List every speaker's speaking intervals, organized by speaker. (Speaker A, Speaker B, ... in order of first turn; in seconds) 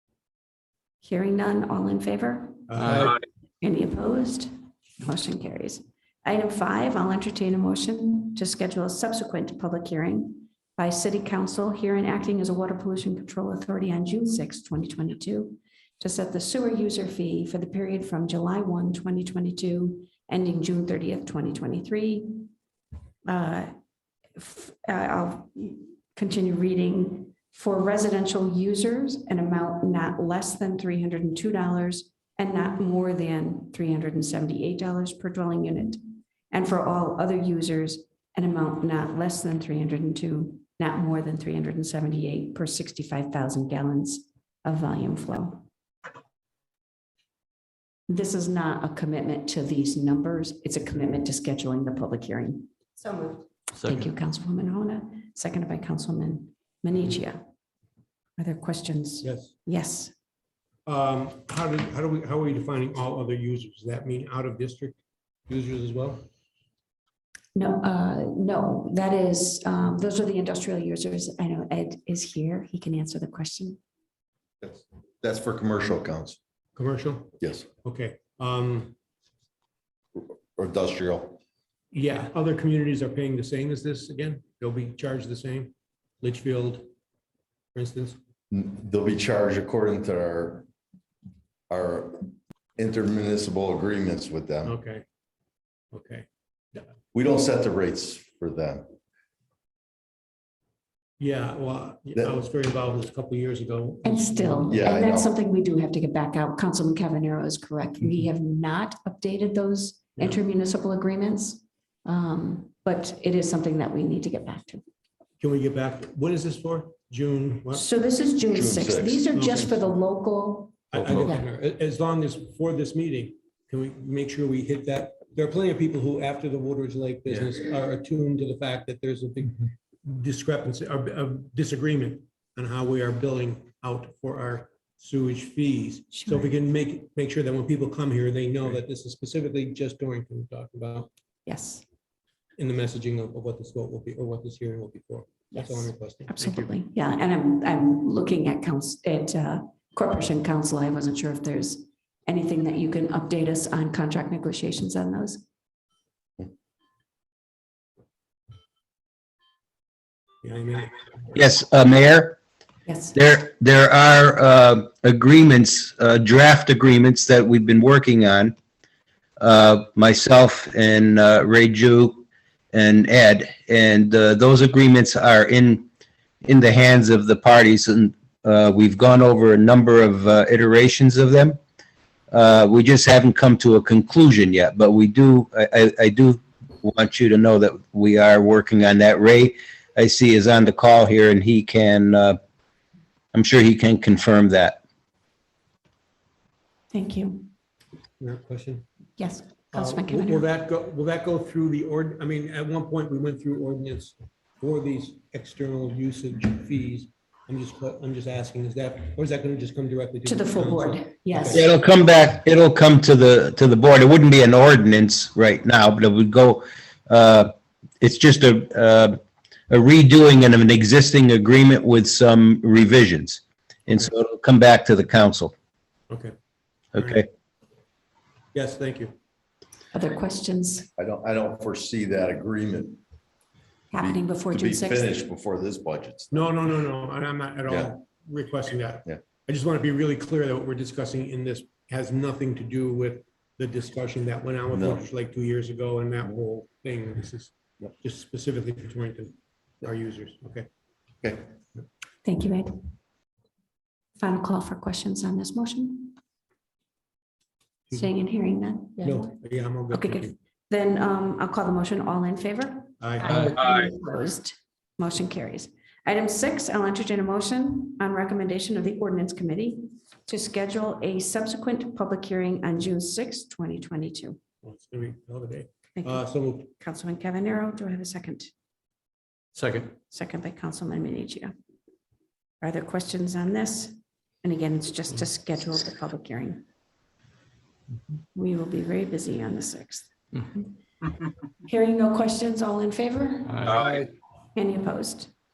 Speaker A: 1.0-3.0, 3.6-22.5, 23.3-23.7, 24.4-45.6, 48.1-57.4, 58.4-60.1, 67.5-73.8, 104.0-114.8, 117.7-121.5, 136.1-136.5, 141.5-141.8, 145.5-155.4, 162.9-163.2, 196.9-197.5, 199.2-200.5, 210.3-211.7, 229.9-230.9, 233.9-235.3, 252.2-252.9, 254.2-256.2, 257.9-259.4, 259.9-274.4, 275.9-278.5, 280.1-281.5, 282.6-286.7, 288.4-290.7, 291.6-293.8, 294.6-295.3
Speaker B: 2.7-3.1, 59.2-59.5, 60.9-65.0, 65.5-66.3, 76.8-79.0, 81.9-86.9, 87.7-88.2, 94.7-95.0, 95.9-96.9, 101.2-104.8, 115.4-117.8, 119.4-119.7, 120.9-141.1, 142.6-146.7, 160.4-161.0, 198.2-198.8, 199.7-211.7, 226.1-226.3, 226.9-227.3, 228.5-229.1, 236.3-250.7, 259.0-260.3, 263.0-263.4, 274.6-276.7
Speaker C: 74.6-76.4, 77.4-77.7, 80.2-81.4, 88.5-90.7, 91.7-94.8, 97.1-98.9, 104.7-105.3, 118.5-119.3, 120.9-121.3, 231.0-233.0, 234.0-236.5, 237.7-237.9, 244.7-245.0, 251.2-251.5
Speaker D: 161.3-162.4, 163.2-168.6, 169.4-175.9, 176.4-181.6, 182.3-192.4, 193.3-194.8, 211.5-219.2, 219.7-225.5, 226.9-227.3